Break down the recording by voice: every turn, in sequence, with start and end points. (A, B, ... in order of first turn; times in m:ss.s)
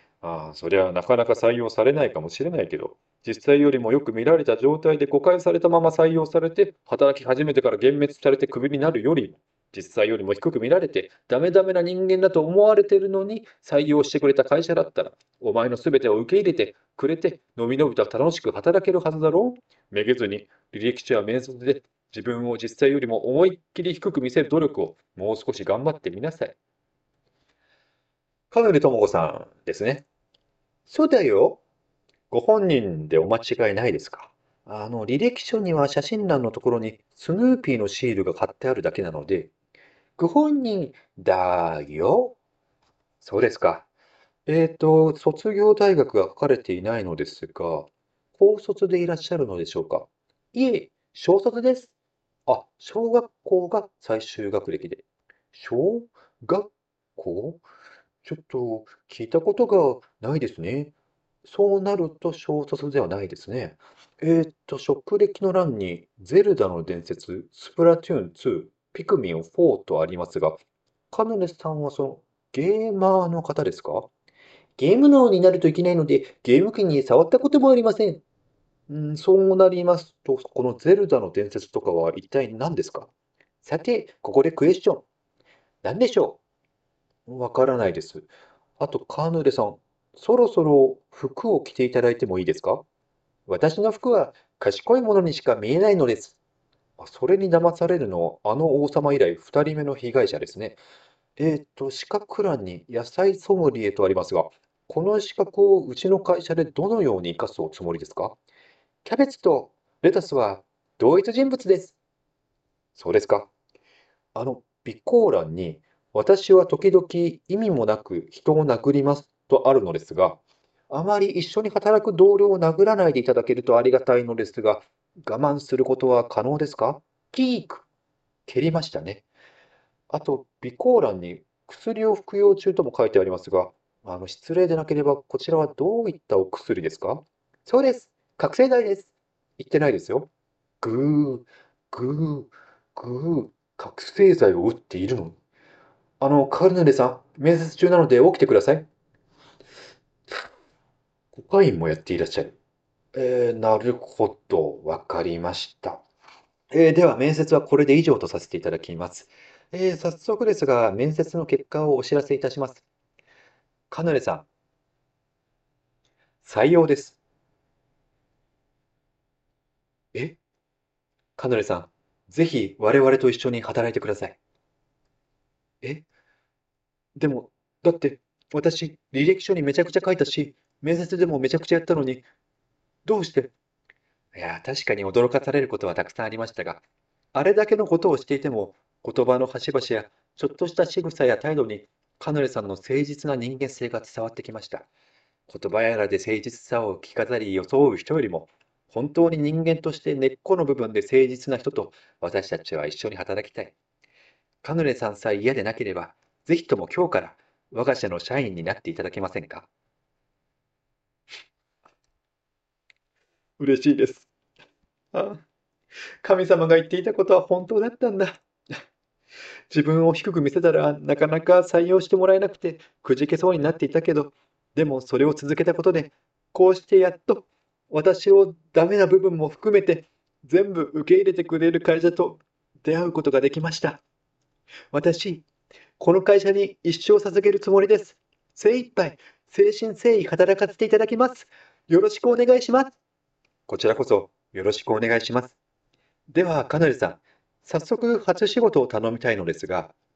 0:00.2-0:26.5 A
0:28.5-0:30.0 A
0:30.9-0:31.6 A
0:32.3-0:39.5 A
0:40.2-0:42.3 A
0:43.2-0:43.9 A
0:44.4-0:51.9 A
0:52.5-0:55.0 A
0:55.5-0:57.6 A
0:58.2-1:00.9 A
1:01.4-1:10.6 A
1:11.1-1:14.1 A
1:14.8-1:18.2 A
1:18.9-1:23.1 A
1:23.6-1:25.0 A
1:25.8-1:26.4 A
1:27.3-1:28.3 A
1:28.8-1:32.8 A
1:33.5-1:36.3 A
1:37.0-1:40.8 A
1:41.4-1:48.4 A
1:49.0-1:51.9 A
1:53.0-1:53.5 A
1:54.3-2:07.8 A
2:08.5-2:09.2 A
2:10.1-2:20.3 A
2:20.8-2:25.3 A
2:26.2-2:28.9 A
2:31.3-2:32.5 A
2:33.1-2:36.0 A
2:36.7-2:42.8 A
2:43.9-2:44.4 A
2:46.4-2:47.2 A
2:51.4-2:54.4 A
2:57.2-3:02.2 A
3:03.0-3:03.5 A
3:04.3-3:06.8 A
3:07.3-3:14.9 A
3:15.5-3:23.7 A
3:24.6-3:29.7 A
3:33.6-3:34.3 A
3:35.1-3:35.4 A
3:36.2-3:38.4 A
3:39.7-3:54.0 A
3:54.9-3:55.4 A
3:56.0-4:02.9 A
4:03.7-4:05.5 A
4:06.3-4:09.9 A